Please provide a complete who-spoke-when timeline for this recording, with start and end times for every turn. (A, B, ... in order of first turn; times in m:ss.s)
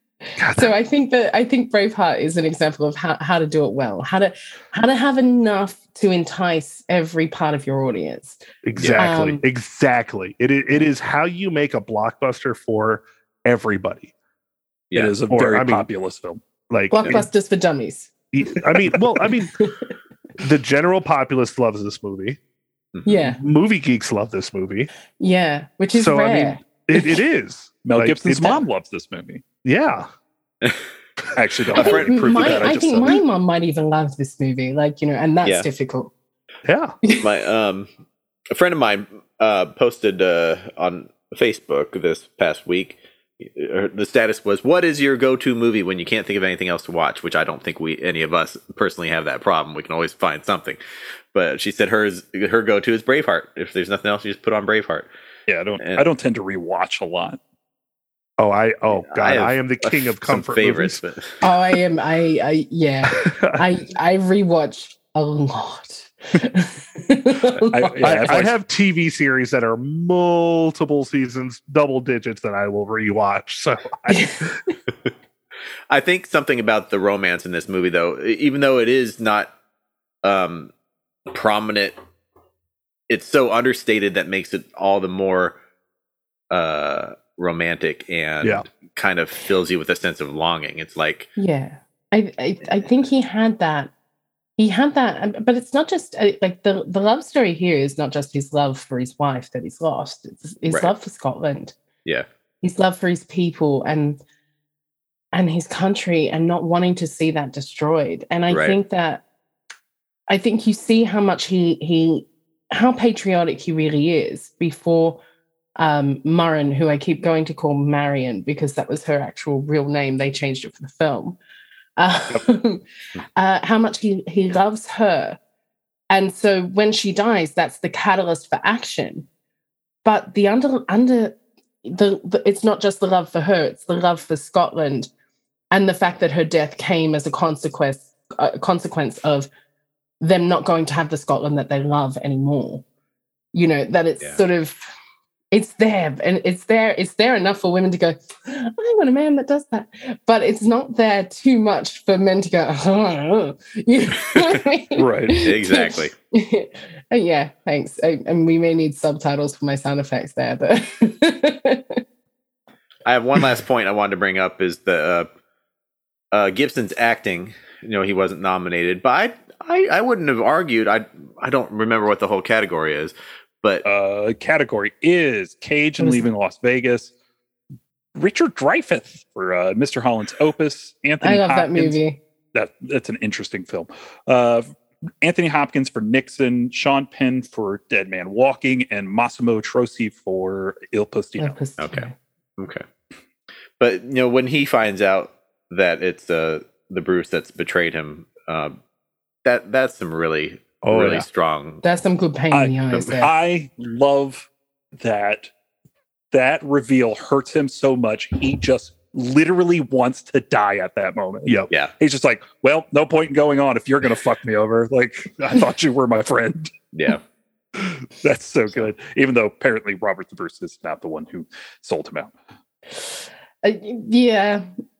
0:00.4-0:00.7 A
0:00.4-0:08.4 B
0:08.6-0:14.1 A
0:08.8-0:09.0 C
0:09.0-0:09.4 B
0:14.9-0:15.2 C
0:14.9-0:16.4 D
0:15.3-0:15.9 A
0:16.7-0:17.3 A
0:16.9-0:18.1 B
0:18.3-0:19.6 A
0:19.0-0:19.9 B
0:20.4-0:22.4 A
0:23.0-0:23.3 C
0:23.1-0:23.4 B
0:23.3-0:24.9 A
0:25.2-0:27.2 B
0:25.9-0:28.6 A
0:27.8-0:29.4 D
0:29.6-0:30.1 A
0:31.4-0:33.2 D
0:31.7-0:32.8 C
0:31.7-0:36.1 B
0:35.4-0:35.7 C
0:36.6-0:37.0 A
0:37.0-0:37.3 B
0:37.2-0:37.9 C
0:38.5-0:50.8 C
0:51.3-0:55.1 C
0:55.5-0:57.4 D
0:55.8-0:56.0 C
0:58.4-1:01.0 A
0:59.0-1:01.4 C
1:01.4-1:08.4 B
1:03.1-1:03.6 A
1:07.7-1:08.6 D
1:08.0-1:14.5 A
1:14.1-1:14.7 B
1:15.9-1:19.5 C
1:20.2-1:20.7 C
1:21.3-1:22.0 C
1:23.1-1:25.6 C
1:26.5-1:31.3 C
1:31.4-1:33.9 B
1:34.6-1:41.8 B
1:40.7-1:40.9 C
1:42.6-1:44.2 B
1:45.3-1:49.2 B
1:48.5-1:48.8 C
1:50.3-1:55.2 B
1:55.8-2:01.4 B
2:02.0-2:02.8 B
2:03.4-2:05.4 B
2:06.1-2:09.3 B
2:10.0-2:15.1 B
2:15.7-2:19.5 B
2:20.2-2:22.8 B
2:23.5-2:24.8 B
2:25.5-2:42.0 B
2:35.0-2:35.4 D
2:35.4-2:36.1 C
2:43.0-2:45.3 C
2:46.3-2:53.8 C
2:53.8-2:57.1 D
2:56.0-2:56.3 B
2:58.2-3:02.0 D
3:01.2-3:02.2 B
3:02.5-3:11.6 D
3:11.4-3:12.1 B
3:11.8-3:12.8 C
3:13.8-3:18.8 C
3:19.4-3:21.8 C
3:20.8-3:21.3 A
3:21.8-3:23.3 B
3:22.5-3:25.5 D
3:26.3-3:36.7 D
3:31.4-3:31.7 A
3:36.9-3:37.2 C
3:37.8-3:42.3 D
3:42.9-3:44.7 B